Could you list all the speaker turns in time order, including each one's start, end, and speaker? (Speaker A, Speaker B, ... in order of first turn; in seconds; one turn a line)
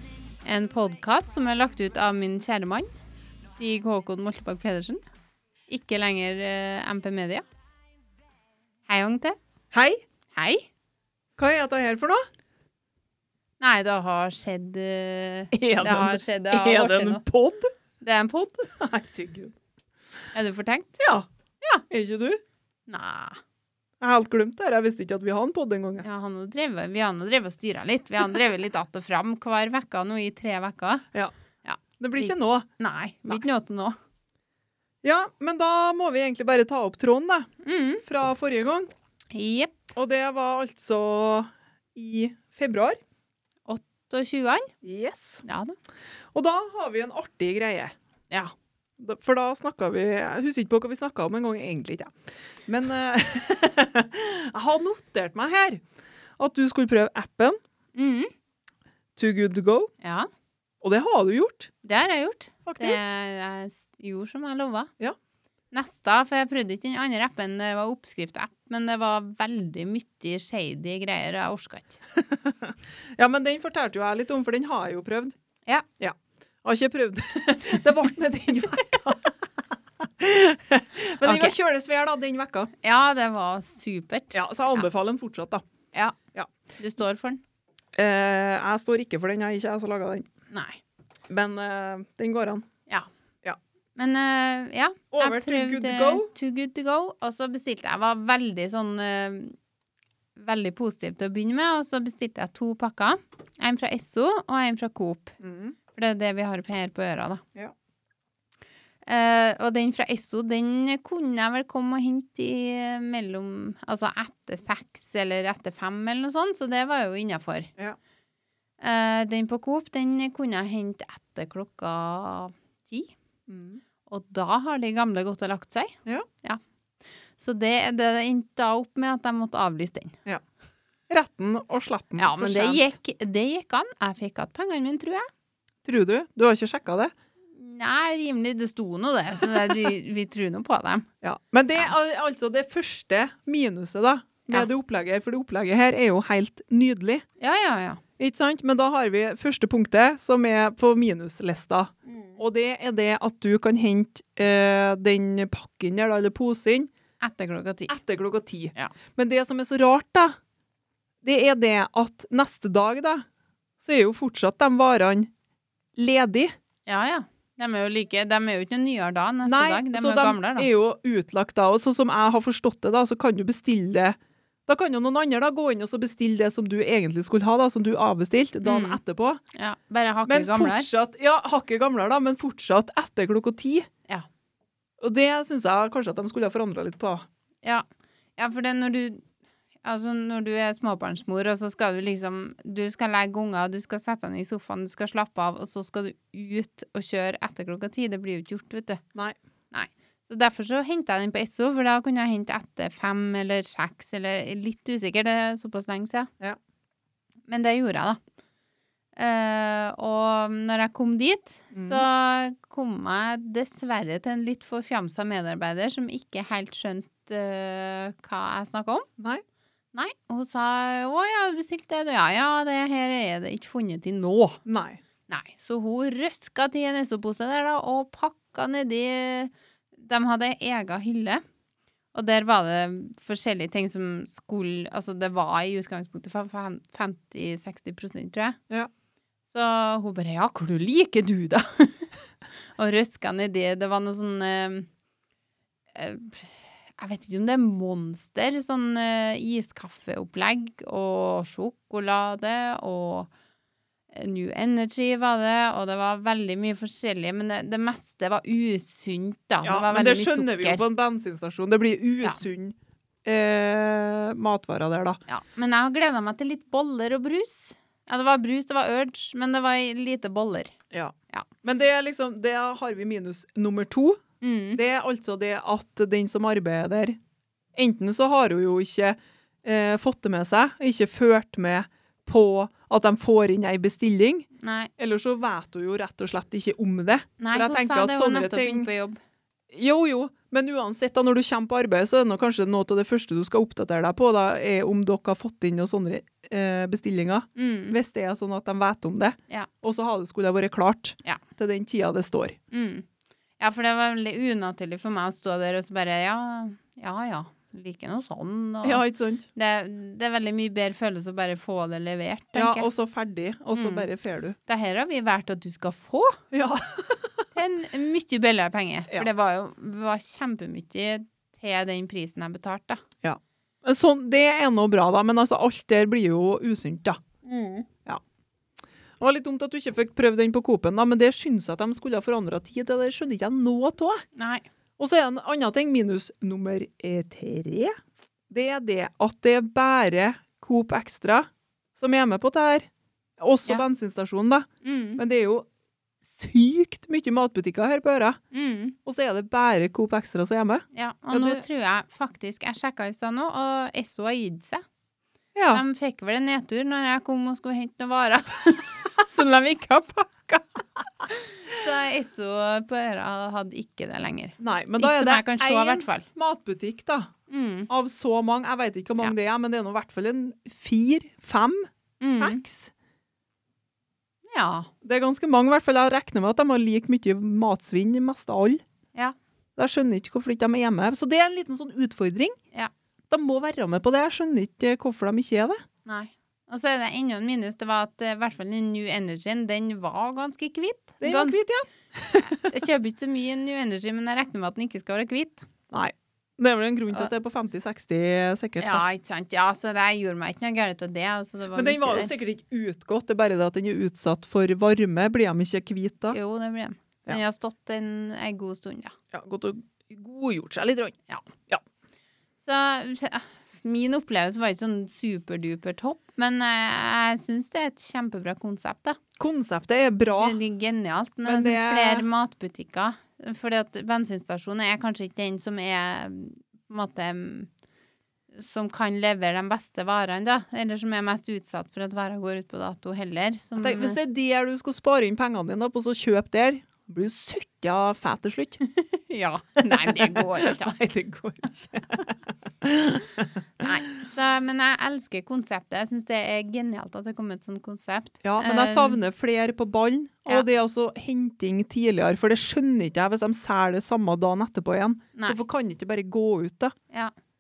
Speaker A: 0.4-2.9
Speaker A: 3.6-5.0
Speaker A: 5.7-7.4
Speaker A: 8.9-9.4
Speaker B: 9.7-10.0
Speaker A: 10.3-10.7
Speaker B: 11.4-12.2
Speaker A: 13.6-17.2
Speaker B: 15.5-17.7
Speaker A: 18.0-18.7
Speaker B: 18.8-19.5
Speaker A: 20.3-21.0
Speaker B: 21.0-21.2
Speaker B: 21.9-22.4
Speaker A: 22.9-23.4
Speaker B: 24.0-26.1
Speaker A: 26.0-31.0
Speaker A: 31.6-34.0
Speaker B: 32.0-32.6
Speaker B: 35.0-37.5
Speaker A: 37.6-38.0
Speaker B: 38.0-38.9
Speaker A: 39.3-39.7
Speaker B: 39.9-43.0
Speaker A: 43.7-44.7
Speaker B: 44.8-45.4
Speaker A: 45.4-45.8
Speaker B: 46.3-47.9
Speaker B: 49.0-55.8
Speaker B: 56.4-57.5
Speaker A: 58.0-58.3
Speaker B: 59.1-59.9
Speaker A: 60.0-60.3
Speaker B: 60.8-61.7
Speaker A: 61.8-64.9
Speaker B: 62.6-63.0
Speaker A: 65.7-72.0
Speaker B: 72.1-75.3
Speaker B: 76.0-82.7
Speaker A: 81.2-81.5
Speaker A: 82.8-84.8
Speaker B: 84.3-85.6
Speaker A: 86.8-87.4
Speaker B: 88.0-90.3
Speaker A: 90.5-90.8
Speaker B: 91.3-92.7
Speaker A: 94.0-99.5
Speaker B: 95.1-96.3
Speaker A: 100.4-105.3
Speaker B: 105.4-105.8
Speaker A: 105.9-107.4
Speaker A: 109.0-117.7
Speaker A: 118.8-123.1
Speaker B: 123.5-123.8
Speaker A: 124.1-126.6
Speaker A: 127.4-130.2
Speaker B: 131.1-132.9
Speaker A: 132.2-135.3
Speaker B: 135.8-137.1
Speaker A: 137.5-141.1
Speaker B: 141.2-147.2
Speaker A: 147.4-148.0
Speaker B: 148.2-156.9
Speaker A: 152.1-152.4
Speaker A: 157.2-157.9
Speaker B: 157.9-160.3
Speaker B: 161.2-163.2
Speaker B: 163.8-165.3
Speaker B: 165.9-166.5
Speaker A: 166.9-170.7
Speaker B: 169.4-179.4
Speaker A: 178.6-179.0
Speaker A: 179.5-180.9
Speaker B: 180.3-183.9
Speaker B: 185.0-187.2
Speaker A: 188.4-189.2
Speaker A: 189.8-199.0
Speaker A: 199.7-206.3
Speaker A: 207.5-208.2
Speaker A: 209.2-219.1
Speaker B: 211.7-212.0
Speaker A: 219.9-224.6
Speaker B: 224.7-225.0
Speaker A: 225.3-231.4
Speaker A: 232.1-238.6
Speaker A: 239.5-242.1
Speaker A: 242.8-244.9
Speaker A: 245.9-253.3
Speaker A: 254.1-260.8
Speaker B: 259.6-265.2
Speaker A: 265.3-270.7
Speaker B: 270.9-274.2
Speaker A: 274.4-274.8
Speaker B: 274.7-277.2
Speaker B: 277.7-284.5
Speaker A: 284.6-284.9
Speaker B: 285.0-288.9
Speaker A: 287.4-289.2
Speaker B: 289.7-302.6
Speaker A: 297.6-297.9
Speaker A: 302.7-303.1
Speaker A: 303.6-309.0
Speaker B: 308.8-309.4
Speaker A: 309.5-312.9
Speaker B: 312.5-314.6
Speaker A: 313.7-314.1
Speaker A: 314.7-316.4
Speaker B: 316.5-317.4
Speaker A: 317.5-323.0
Speaker B: 323.2-327.2
Speaker A: 327.4-327.9
Speaker B: 329.2-334.2
Speaker A: 334.4-334.6
Speaker B: 335.0-337.9
Speaker B: 338.5-342.9
Speaker B: 343.4-345.7
Speaker A: 344.8-345.2
Speaker B: 346.2-348.4
Speaker A: 348.5-348.9
Speaker B: 349.0-351.6
Speaker A: 350.9-354.8
Speaker B: 355.5-355.8
Speaker A: 355.7-366.2
Speaker B: 364.6-367.3
Speaker A: 367.5-367.9
Speaker B: 367.9-372.9
Speaker A: 372.2-372.6
Speaker A: 374.5-374.9
Speaker B: 375.0-378.8
Speaker B: 379.8-382.6
Speaker B: 383.3-385.8
Speaker A: 386.1-391.6
Speaker B: 391.2-392.7
Speaker A: 392.6-395.6
Speaker B: 395.9-399.0
Speaker A: 398.8-402.3
Speaker B: 401.7-406.4
Speaker A: 406.3-409.1
Speaker B: 409.3-411.1
Speaker A: 412.6-419.2
Speaker B: 419.4-420.6
Speaker A: 420.4-427.7
Speaker B: 421.4-422.2
Speaker A: 428.6-434.2
Speaker B: 433.8-438.8
Speaker A: 438.8-441.0
Speaker B: 439.8-442.3
Speaker B: 442.8-443.9
Speaker A: 443.8-449.2
Speaker B: 448.4-456.9
Speaker A: 455.3-455.6